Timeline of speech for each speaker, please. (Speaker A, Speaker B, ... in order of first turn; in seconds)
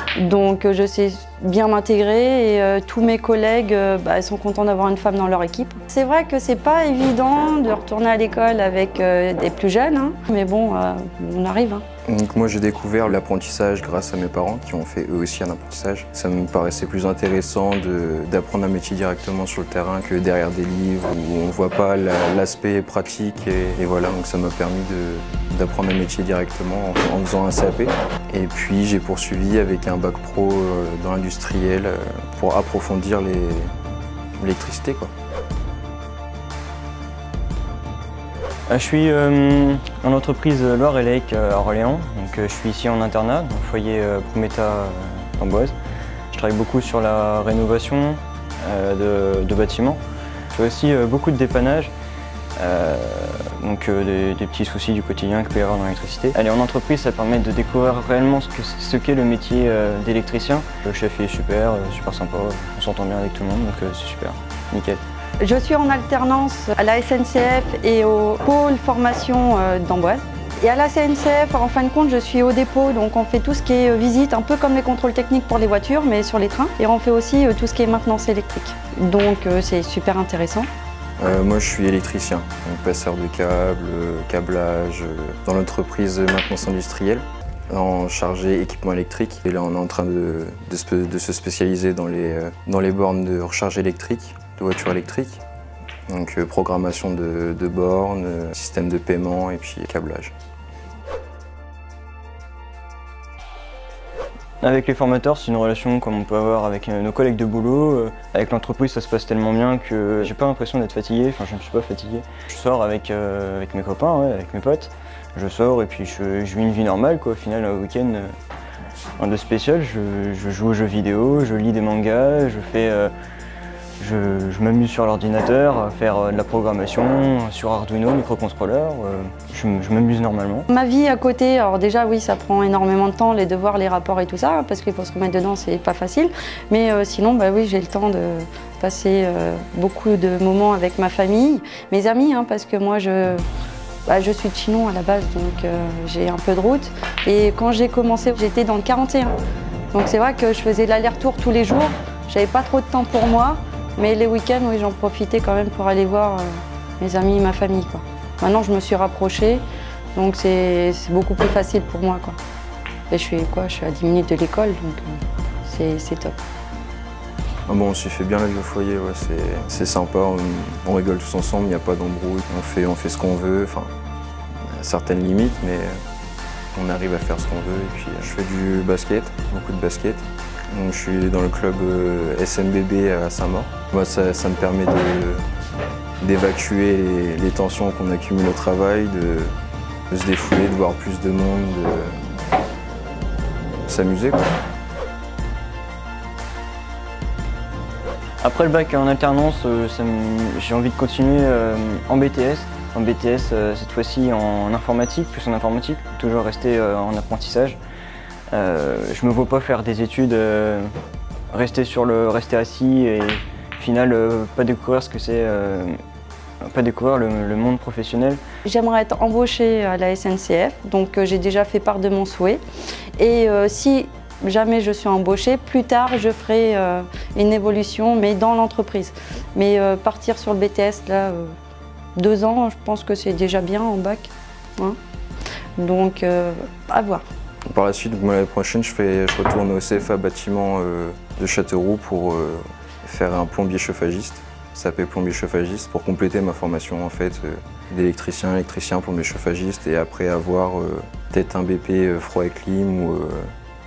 Speaker A: 0.1-11.8, 65.4-80.7, 130.7-143.4, 144.1-149.3, 149.9-159.6, 160.1-162.4, 163.1-166.4, 218.6-222.6, 223.2-231.5, 232.2-235.0, 235.8-237.2
Speaker B: 12.1-33.7, 34.4-35.1, 81.2-95.4, 96.1-100.3, 167.7-173.9, 174.6-176.0, 176.7-185.4, 186.2-189.5, 190.1-192.2, 193.9-194.4, 237.7-253.5
Speaker C: 38.7-45.7, 46.3-50.0, 50.5-51.9, 52.6-65.0, 104.6-118.3, 119.2-123.1, 124.0-130.7, 198.4-207.8, 208.5-210.9, 211.5-215.9, 216.6-218.4